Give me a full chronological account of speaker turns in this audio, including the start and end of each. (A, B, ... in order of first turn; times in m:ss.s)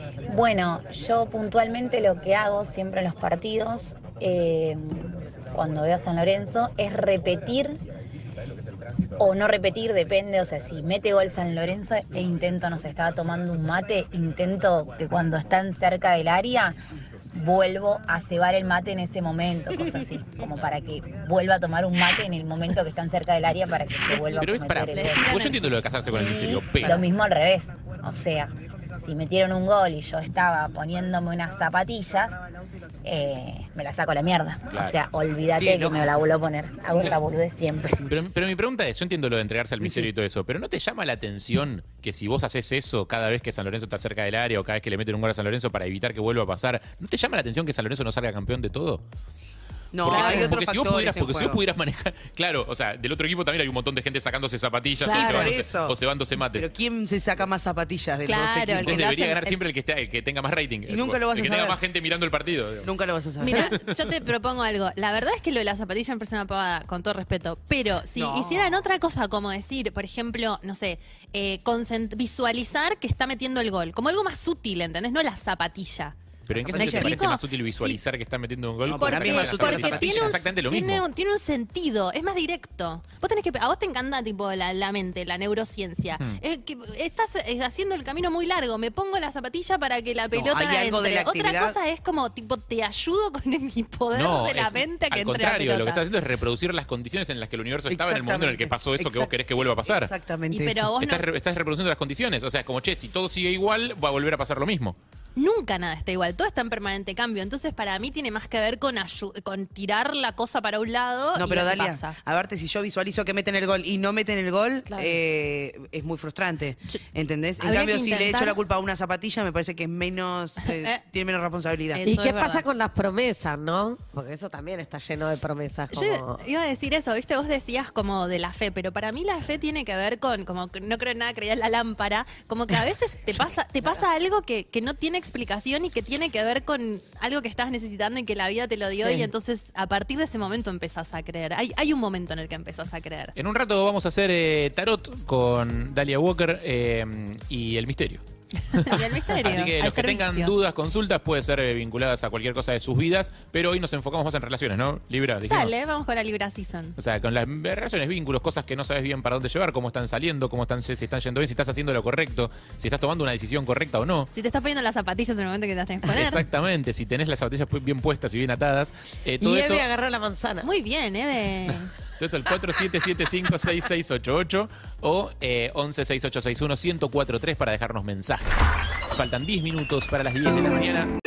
0:00.3-0:07.8 A
0:09.2-0:16.8 A
0:17.3-0:25.2 A
0:24.2-0:27.0 B
0:24.3-0:25.7 C
0:26.1-0:32.4 A
0:26.8-0:27.0 D
0:33.0-0:38.2 A
0:34.7-0:35.0 B
0:35.6-0:36.2 D
0:38.1-0:49.0 B
0:39.8-0:40.1 D
0:49.9-0:51.6 D
0:50.0-0:56.7 B
0:50.0-0:50.5 C
0:55.0-0:55.5 C
0:55.0-0:56.0 D
0:56.5-0:59.0 D
0:58.2-0:59.6 C
0:58.8-1:02.9 B
1:00.9-1:01.8 D
1:02.8-1:03.8 D
1:03.4-1:16.2 C
1:03.5-1:03.8 B
1:08.1-1:08.9 D
1:16.5-1:21.0 B
1:16.6-1:17.2 D
1:16.7-1:18.0 C
1:18.8-1:20.5 D
1:19.0-1:36.0 C
1:30.3-1:31.8 D
1:34.1-1:40.1 B
1:37.9-1:39.3 D
1:39.8-1:40.9 D
1:40.5-1:41.2 C
1:41.0-1:45.0 B
1:45.4-1:52.2 C
1:51.4-2:02.0 D
1:54.9-1:55.2 C
1:57.6-1:58.6 C
2:00.7-2:01.0 C
2:01.9-2:02.6 C
2:02.0-2:06.4 E
2:05.9-2:23.3 C
2:19.0-2:19.3 E
2:23.4-2:28.2 B
2:28.7-2:35.7 B
2:28.8-2:30.5 C
2:35.5-2:37.0 C
2:37.0-2:44.3 B
2:44.3-2:46.5 C
2:46.1-2:49.8 B
2:49.4-2:50.7 E
2:50.6-2:51.9 C
2:52.2-3:01.1 B